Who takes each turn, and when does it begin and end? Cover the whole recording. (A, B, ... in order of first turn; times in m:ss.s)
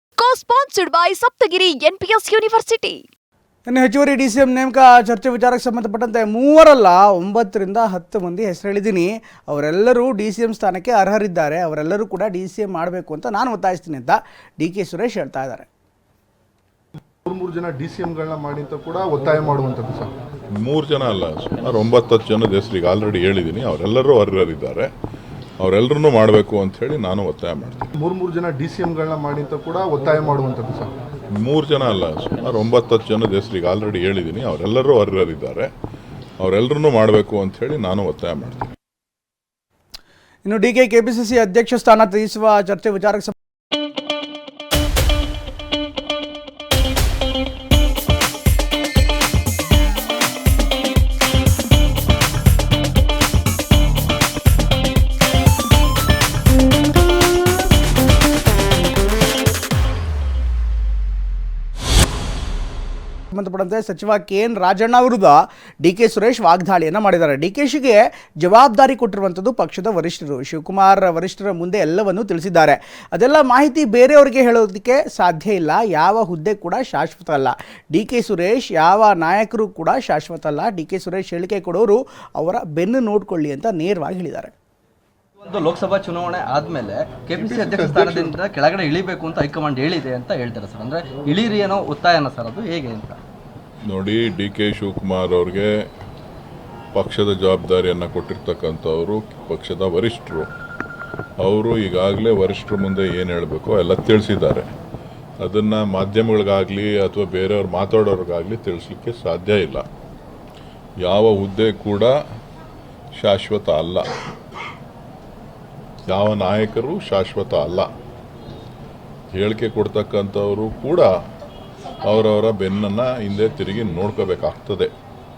0:00.2-0:03.0 A
0:03.7-0:15.7 B
0:17.3-0:20.1 C
0:20.6-0:24.9 D
0:25.6-0:27.9 D
0:28.0-0:30.9 C
0:31.4-0:35.7 D
0:36.4-0:38.7 D
0:40.4-0:43.3 B
1:03.3-1:24.5 B
1:25.4-1:33.2 E
1:27.3-1:28.4 C
1:33.9-1:35.8 D
1:36.9-1:40.5 D
1:41.4-1:44.7 D
1:45.4-1:49.8 D
1:51.0-1:52.2 D
1:53.2-1:54.1 D
1:56.1-1:57.9 D
1:59.3-2:01.1 D
2:02.0-2:04.9 D